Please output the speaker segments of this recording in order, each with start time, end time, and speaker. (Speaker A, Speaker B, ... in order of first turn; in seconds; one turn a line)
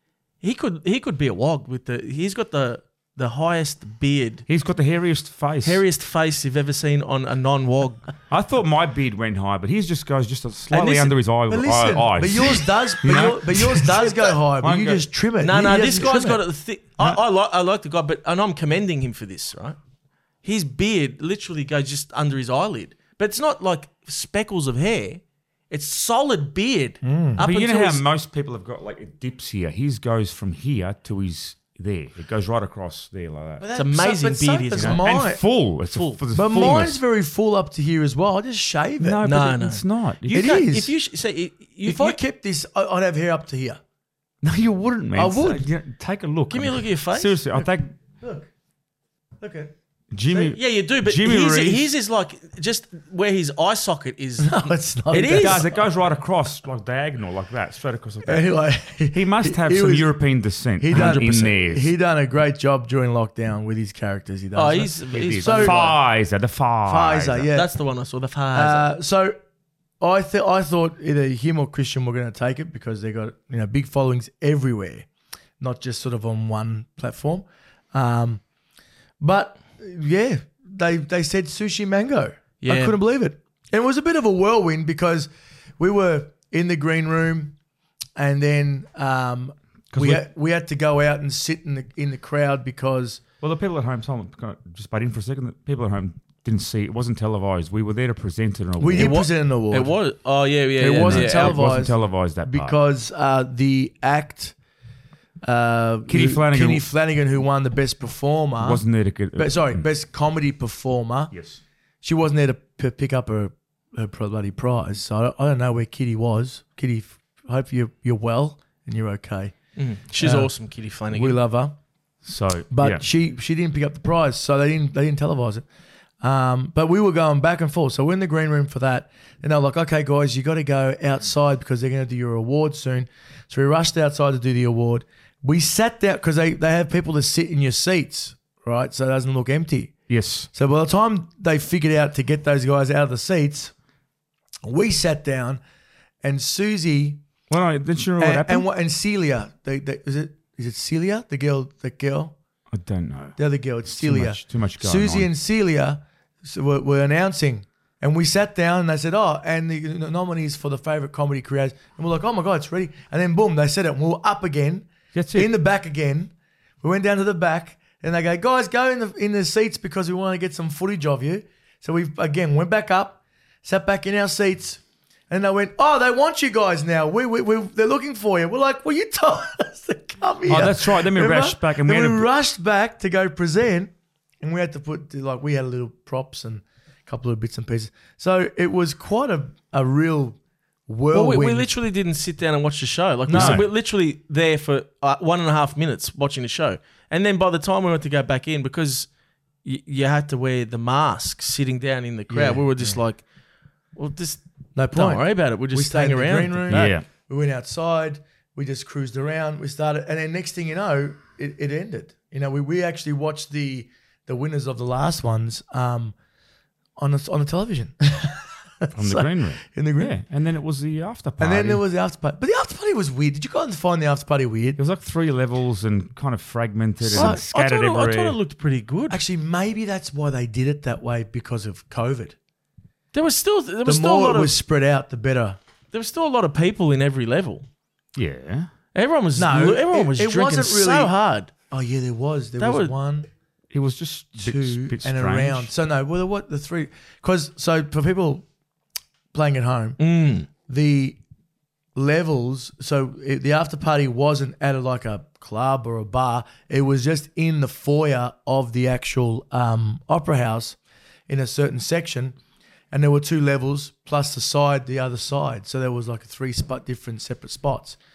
Speaker A: 0.4-4.5
Speaker B: 4.5-5.8
Speaker A: 5.6-8.1
Speaker B: 8.3-15.1
Speaker A: 10.7-11.2
Speaker C: 11.5-16.4
Speaker A: 15.4-19.8
Speaker A: 20.4-28.1
Speaker C: 27.0-27.4
Speaker B: 27.4-33.6
Speaker C: 33.6-35.4
Speaker A: 33.7-35.0
Speaker B: 34.8-37.0
Speaker A: 35.9-36.2
Speaker C: 36.3-39.2
Speaker B: 39.0-40.5
Speaker A: 39.2-42.2
Speaker C: 40.3-41.0
Speaker C: 41.9-43.8
Speaker B: 44.4-47.9
Speaker C: 45.1-45.7
Speaker A: 46.5-47.4
Speaker C: 48.2-48.5
Speaker C: 49.4-49.7
Speaker B: 50.1-51.9
Speaker A: 50.3-55.8
Speaker C: 54.4-55.7
Speaker B: 55.3-58.5
Speaker C: 58.3-60.1
Speaker B: 59.1-61.9
Speaker C: 60.8-65.8
Speaker A: 64.5-66.0
Speaker B: 65.1-67.5
Speaker C: 66.9-67.7
Speaker A: 67.5-68.9
Speaker C: 68.5-69.4
Speaker C: 70.0-75.1
Speaker C: 75.6-78.4
Speaker C: 79.2-87.5
Speaker A: 82.6-83.0
Speaker C: 88.2-93.2
Speaker B: 89.9-90.3
Speaker B: 93.4-99.2
Speaker C: 98.8-100.0
Speaker A: 99.0-101.8
Speaker C: 100.8-104.5
Speaker B: 101.0-102.8
Speaker C: 105.4-108.8
Speaker B: 106.1-106.8
Speaker B: 108.6-109.9
Speaker C: 109.4-111.3
Speaker B: 111.3-111.6
Speaker C: 112.0-119.6
Speaker A: 119.8-121.4
Speaker C: 120.2-120.5
Speaker C: 121.1-121.8
Speaker B: 122.2-123.0
Speaker C: 122.7-125.7
Speaker C: 126.2-139.9
Speaker B: 140.1-140.5
Speaker C: 140.5-143.7
Speaker C: 144.6-145.6
Speaker C: 146.2-147.2
Speaker B: 147.5-148.7
Speaker C: 148.2-152.3
Speaker B: 152.7-155.3
Speaker C: 153.4-191.7
Speaker B: 165.1-165.5
Speaker B: 180.5-182.3
Speaker A: 191.1-199.1
Speaker C: 193.3-193.7
Speaker B: 193.3-193.7
Speaker A: 199.6-203.2
Speaker C: 202.3-203.0
Speaker A: 204.0-206.9
Speaker C: 204.8-216.2
Speaker B: 206.7-207.1
Speaker C: 217.0-220.1
Speaker B: 218.9-221.8
Speaker C: 221.4-224.8
Speaker B: 224.8-228.4
Speaker C: 227.0-227.4
Speaker A: 227.1-229.2
Speaker C: 229.1-232.3
Speaker A: 233.1-234.6
Speaker C: 233.8-235.6
Speaker A: 235.9-237.7
Speaker B: 238.2-238.7
Speaker A: 238.9-241.5
Speaker C: 239.4-241.1
Speaker C: 241.7-243.3
Speaker A: 242.6-242.9
Speaker B: 243.7-245.7
Speaker C: 244.4-248.4
Speaker C: 249.3-251.2
Speaker A: 250.0-250.5
Speaker C: 251.9-260.8
Speaker C: 261.3-262.4
Speaker C: 262.9-268.0